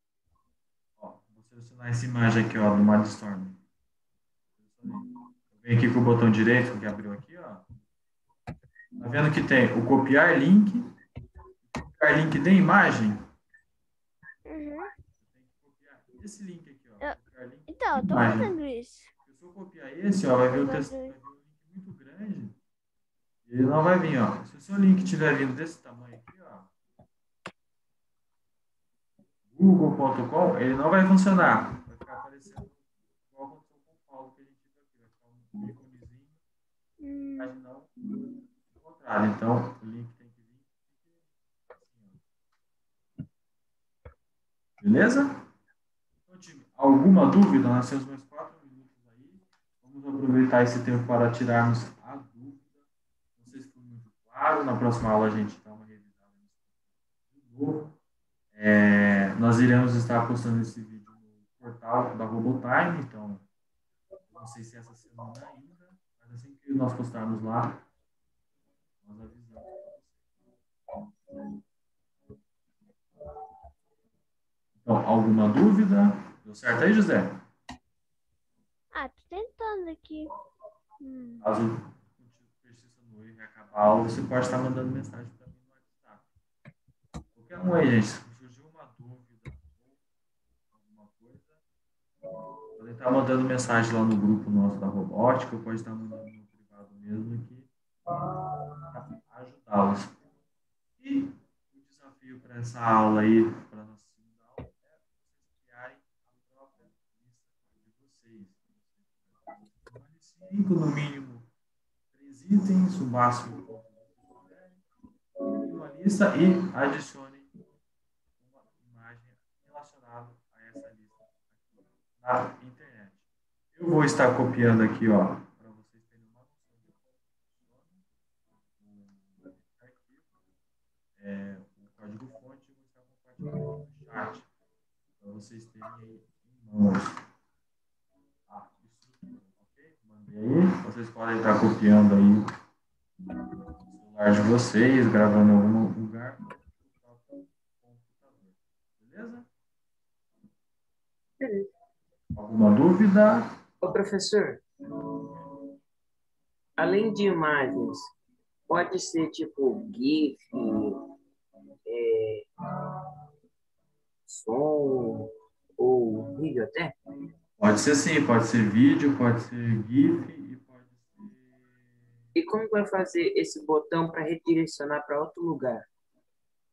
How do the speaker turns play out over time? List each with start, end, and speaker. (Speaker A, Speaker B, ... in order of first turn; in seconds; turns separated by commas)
Speaker A: 1.0-3.6, Speaker A: 4.6-7.7, Speaker A: 9.0-10.8, Speaker A: 11.7-13.2, Speaker B: 14.4-14.9, Speaker A: 15.2-18.5, Speaker B: 17.7-19.1, Speaker A: 19.2-22.6, Speaker B: 20.5-21.1, Speaker A: 23.4-26.7, Speaker A: 29.5-36.4, Speaker B: 37.0-37.5, Speaker A: 37.4-37.9, Speaker A: 38.7-42.2, Speaker A: 44.8-45.3, Speaker A: 46.3-58.0, Speaker A: 58.5-63.5, Speaker A: 64.3-67.8, Speaker A: 69.0-70.3, Speaker A: 74.8-77.4, Speaker B: 78.9-80.3, Speaker B: 81.0-81.4, Speaker A: 81.4-86.3, Speaker A: 87.3-90.0, Speaker A: 90.7-91.6, Speaker A: 92.8-97.7, Speaker A: 98.9-100.2, Speaker A: 101.0-111.5, Speaker A: 112.1-114.8, Speaker A: 115.6-117.5, Speaker A: 118.4-128.0, Speaker A: 128.8-130.3, Speaker A: 131.2-134.5, Speaker A: 135.2-137.1, Speaker A: 138.5-142.4, Speaker A: 143.9-149.5, Speaker C: 151.4-151.7, Speaker A: 152.3-153.5, Speaker C: 153.8-154.6, Speaker C: 156.8-158.1, Speaker C: 158.7-161.0, Speaker C: 161.8-162.5, Speaker C: 164.3-166.9, Speaker A: 167.6-172.1, Speaker C: 172.3-175.8